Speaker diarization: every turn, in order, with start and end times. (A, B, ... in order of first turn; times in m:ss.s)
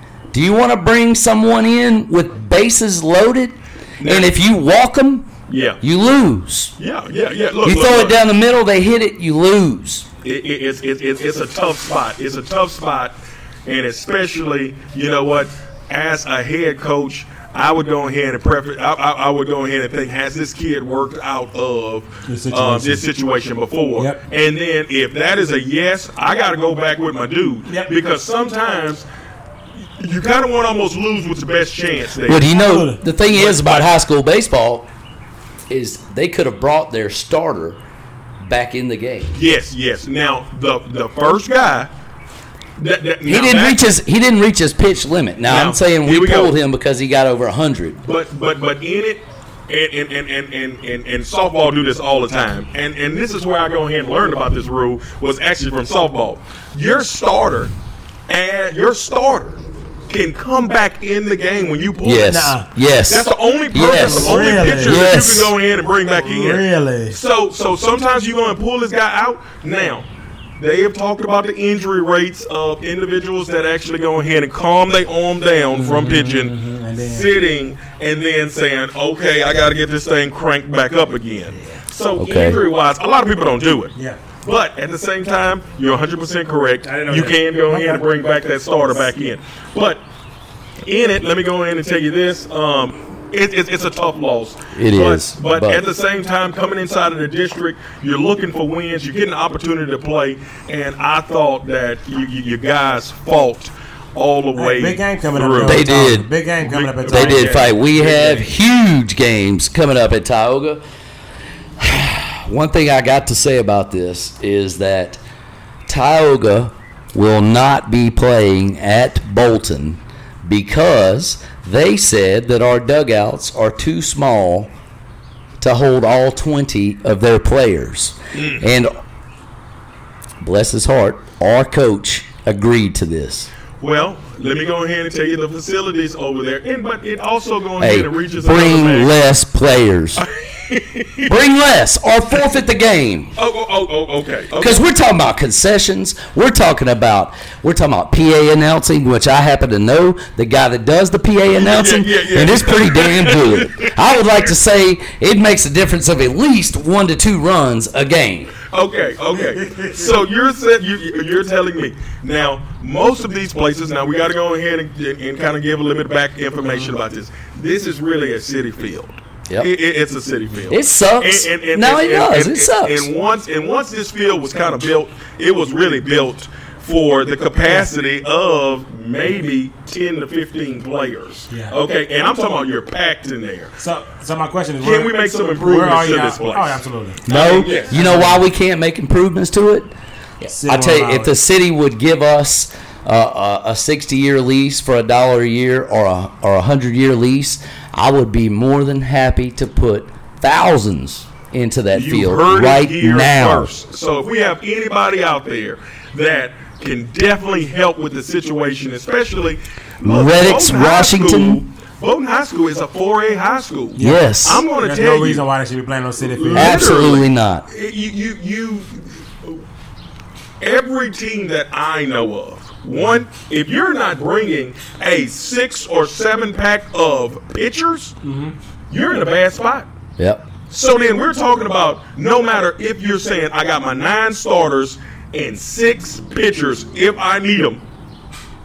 0:00.3-0:06.8 A
0:04.0-0:04.3 B
0:05.5-0:05.8 B
0:06.8-0:08.2 B
0:07.6-0:10.1 A
0:10.2-0:29.1 B
0:22.3-0:23.0 C
0:27.7-0:27.9 C
0:30.0-0:32.6 B
0:32.2-0:34.9 A
0:32.5-0:33.0 C
0:33.3-0:33.9 B
0:35.7-0:37.8 A
0:38.4-0:39.4 A
0:39.4-0:41.9 B
0:42.8-0:43.9 B
0:43.3-0:48.0 A
0:45.5-0:46.5 B
0:48.0-0:57.7 B
0:58.3-1:02.5 B
1:02.0-1:05.5 A
1:02.3-1:02.7 C
1:03.1-1:10.1 B
1:04.0-1:05.1 C
1:06.2-1:07.2 C
1:10.6-1:30.0 B
1:15.7-1:17.4 C
1:22.2-1:22.6 A
1:26.8-1:28.0 C
1:30.8-1:45.9 B
1:34.7-1:35.8 A
1:44.6-1:47.6 C
1:45.6-1:46.3 A
1:46.6-1:48.5 B
1:47.1-1:50.8 A
1:51.8-1:55.2 A
1:55.9-2:04.7 A
2:05.6-2:08.9 A
2:08.3-2:08.6 B
2:10.4-2:13.5 A
2:13.8-2:19.1 B
2:17.8-2:20.2 A
2:20.2-2:21.3 B
2:21.2-2:23.4 A
2:23.4-2:24.8 B
2:24.6-2:38.6 A
2:31.5-2:33.9 B
2:38.7-3:03.7 B
2:50.7-2:53.1 A
3:03.8-3:07.3 C
3:04.8-3:07.9 B
3:07.3-3:09.9 A
3:07.9-3:08.4 C
3:10.4-3:11.4 C
3:10.6-3:23.7 A
3:21.9-3:35.4 B
3:30.0-3:31.6 A
3:34.0-3:36.9 C
3:34.0-3:34.6 A
3:36.3-3:39.6 B
3:36.5-3:37.7 A
3:40.6-3:48.2 B
3:48.2-3:48.5 C
3:48.9-3:49.9 B
3:50.2-3:50.5 A
3:50.7-3:57.8 B